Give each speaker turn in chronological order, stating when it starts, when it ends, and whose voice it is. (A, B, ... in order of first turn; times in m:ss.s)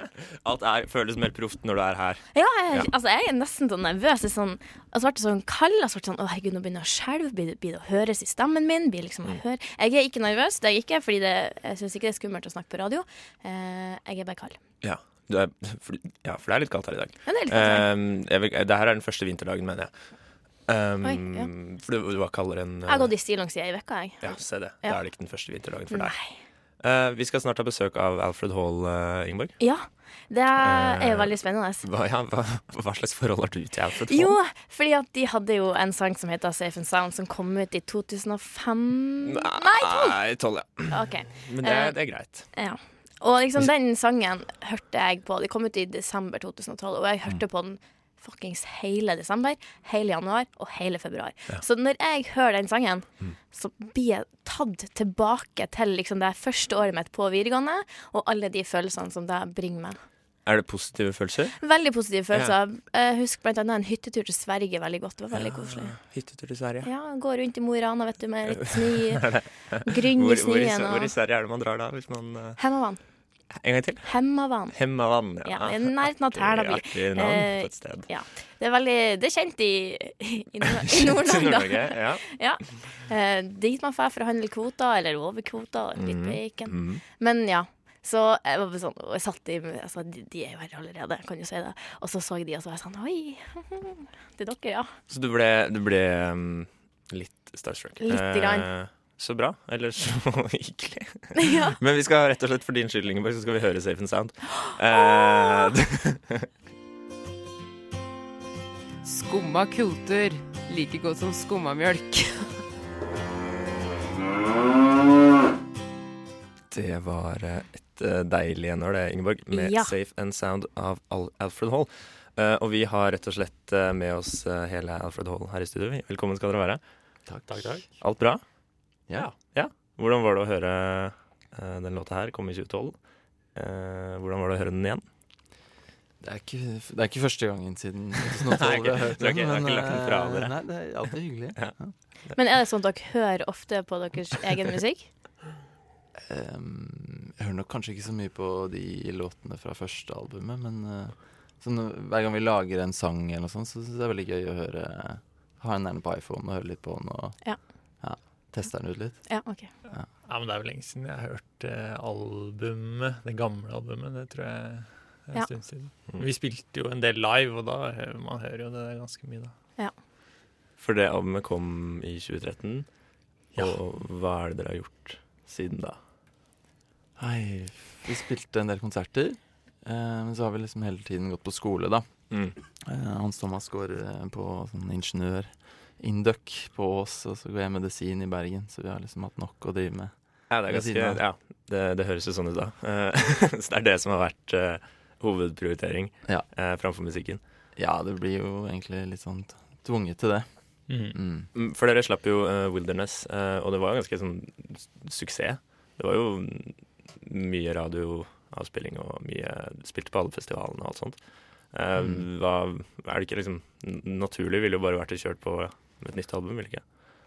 0:00.4-0:02.9 A
0:02.3-0:14.6 B
0:14.8-0:23.1 A
0:17.2-0:17.9 B
0:21.0-0:21.5 B
0:22.9-0:26.4 B
0:24.2-0:29.9 A
0:29.6-0:31.8 B
0:30.6-0:34.4 A
0:34.1-0:40.3 B
0:39.3-0:42.5 A
0:40.9-1:00.0 B
1:00.4-1:01.6 A
1:01.6-1:06.2 B
1:05.3-1:06.9 A
1:06.8-1:11.1 B
1:08.5-1:12.7 A
1:12.6-1:13.0 B
1:13.5-1:18.1 A
1:14.0-1:35.0 B
1:20.9-1:22.7 A
1:26.0-1:27.0 A
1:35.1-1:46.4 A
1:38.0-1:38.7 B
1:41.4-1:41.8 B
1:44.9-1:45.7 B
1:49.3-1:52.2 C
1:56.7-2:06.8 A
1:59.5-1:59.9 B
2:07.2-2:08.0 D
2:07.5-2:08.0 E
2:08.0-2:15.0 A
2:16.2-2:21.9 D
2:18.6-2:22.4 A
2:22.3-2:25.1 B
2:26.2-2:40.1 D
2:39.3-2:39.7 B
2:39.8-2:49.5 E
2:50.8-2:56.0 A
2:57.2-3:11.2 D
3:02.3-3:02.6 A
3:10.5-3:17.4 A
3:17.7-3:21.5 D
3:20.9-3:21.2 E
3:21.5-3:36.8 A
3:32.0-3:32.2 D